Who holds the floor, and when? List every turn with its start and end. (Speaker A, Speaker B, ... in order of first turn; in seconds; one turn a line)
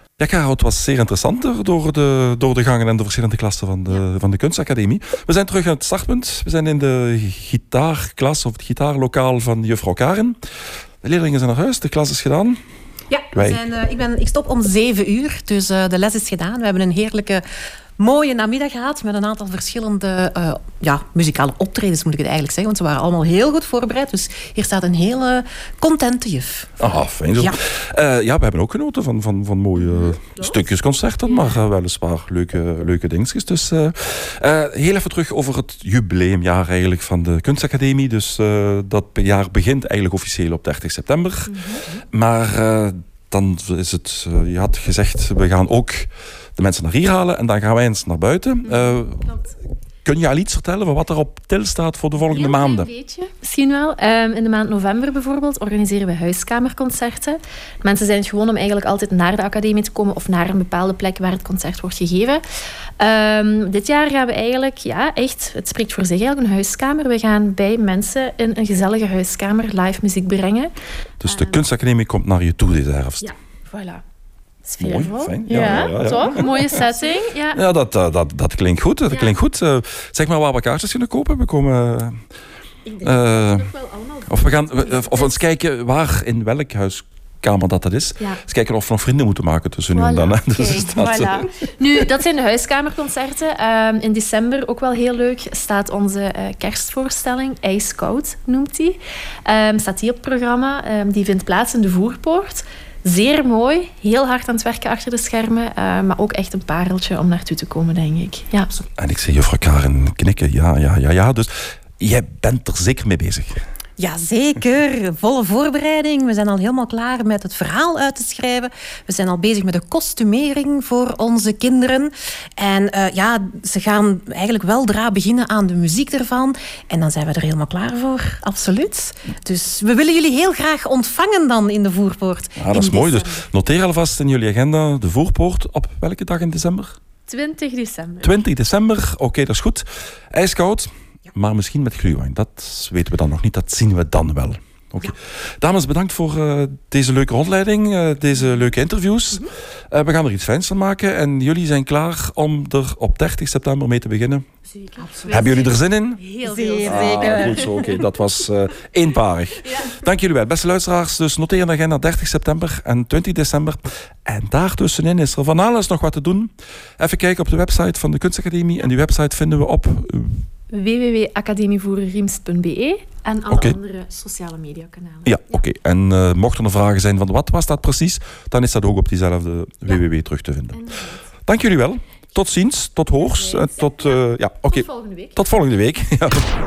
Speaker A: 0.2-10.4
Speaker A: 11.0-12.6
Speaker B: 13.1-17.4
Speaker A: 13.3-13.6
Speaker B: 18.0-26.8
Speaker A: 26.8-49.3
Speaker C: 31.3-31.6
Speaker C: 41.5-42.0
Speaker C: 48.6-49.5
Speaker A: 50.0-52.9
Speaker C: 52.2-62.4
Speaker C: 63.0-70.7
Speaker A: 71.2-73.3
Speaker C: 71.2-71.7
Speaker C: 73.2-74.0
Speaker C: 74.7-77.6
Speaker A: 74.8-76.8
Speaker A: 77.5-82.2
Speaker C: 79.1-79.4
Speaker C: 82.9-85.4
Speaker A: 83.0-83.7
Speaker A: 84.3-91.5
Speaker C: 89.9-108.8
Speaker A: 109.0-113.6
Speaker B: 114.0-133.4
Speaker A: 132.6-137.0
Speaker C: 137.3-138.4
Speaker A: 138.2-154.4
Speaker C: 154.8-157.6
Speaker B: 154.9-155.7
Speaker A: 155.3-156.2
Speaker B: 156.4-158.0
Speaker A: 156.8-170.5
Speaker C: 159.6-159.9
Speaker C: 170.7-175.4
Speaker A: 173.5-173.8
Speaker A: 175.2-180.8
Speaker C: 180.7-181.2
Speaker A: 181.5-186.5
Speaker C: 183.2-184.2
Speaker C: 184.7-185.4